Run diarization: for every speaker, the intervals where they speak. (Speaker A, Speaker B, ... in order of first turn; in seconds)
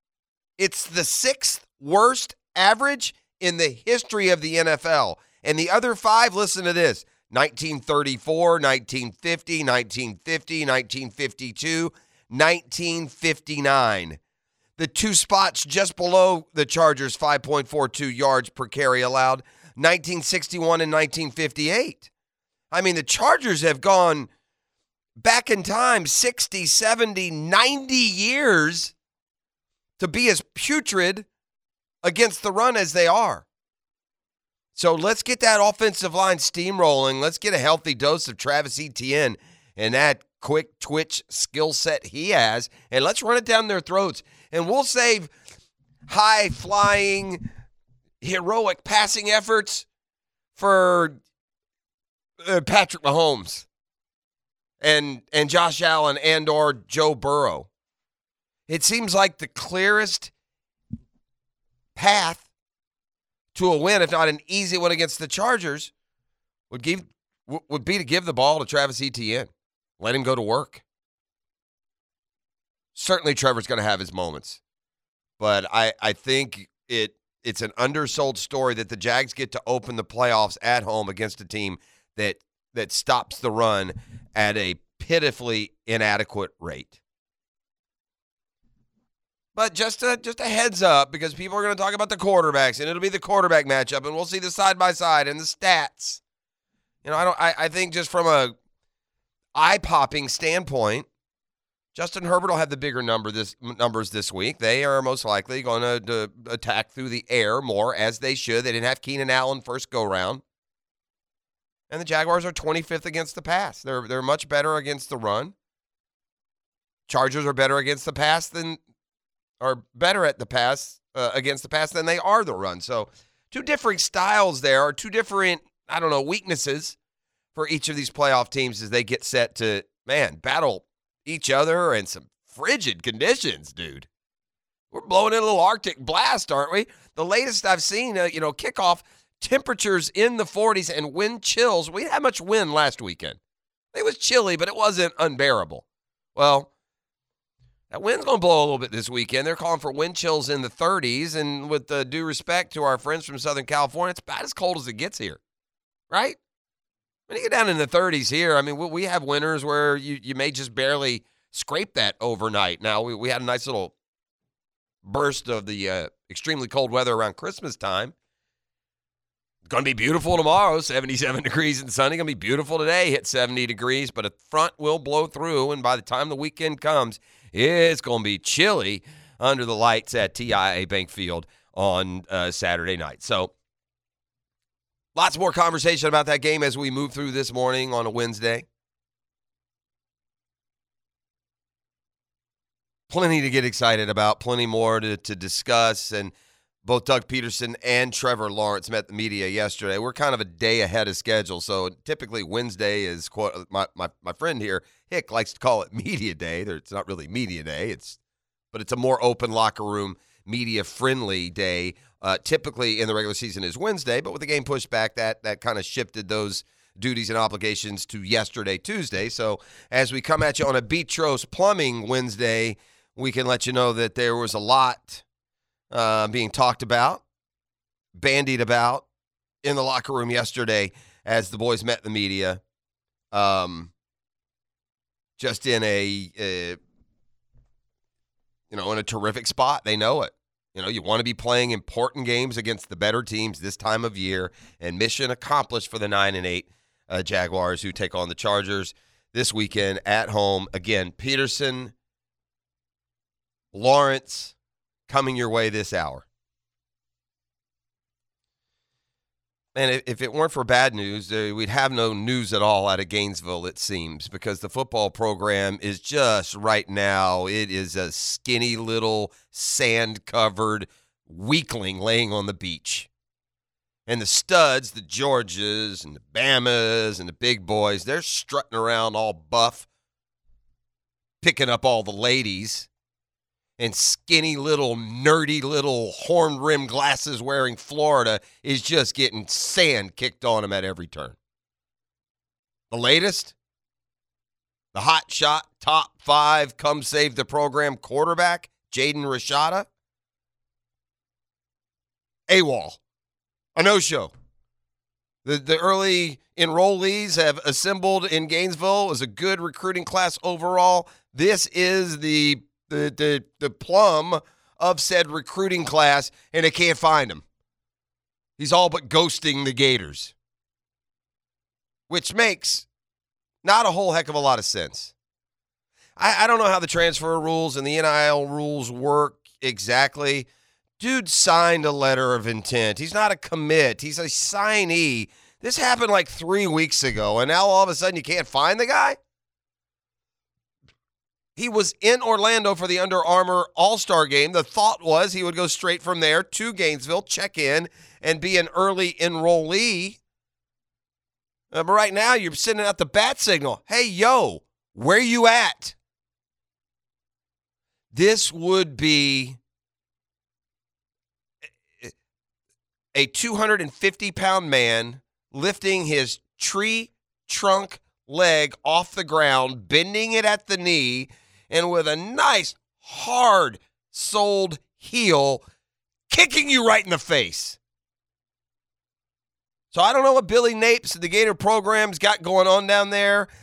Speaker A: 0.6-14.2, 14.8-22.1, 22.7-24.3, 25.2-28.9, 30.0-31.3, 32.0-33.5, 34.8-45.3, 46.1-47.5, 48.2-49.9, 50.6-51.2, 52.4-53.7, 54.8-57.7, 58.7-60.3, 62.0-62.5, 63.5-65.9, 66.7-70.8, 73.0-74.6, 75.4-87.0, 89.5-96.2, 97.0-98.5, 99.5-101.1, 101.9-110.4, 111.9-115.5, 117.1-118.8, 119.6-127.0, 127.5-134.1, 134.9-143.4, 143.9-145.8, 146.4-146.7, 147.9-155.4, 156.1-156.4, 157.3-163.9, 165.0-168.1, 169.7-183.5, 185.2-188.7, 193.1-196.3, 196.8-208.2, 208.7-225.2, 225.9-227.2, 228.2-229.1, 229.6-232.6, 233.3-233.9, 235.4-236.8, 238.7-251.9, 253.7-254.5, 255.1-256.2, 259.8-273.1, 274.1-279.9, 281.4-282.9, 283.8-291.4, 292.9-293.5, 294.9-299.9, 302.5-303.0, 303.8-304.3, 305.4-317.4, 318.6-320.3, 322.1-322.9, 323.6-325.1, 326.2-330.5, 331.0-339.2, 341.6-350.2, 351.7-356.0, 358.1-359.6, 363.1-375.6, 376.3-377.8, 379.9-383.5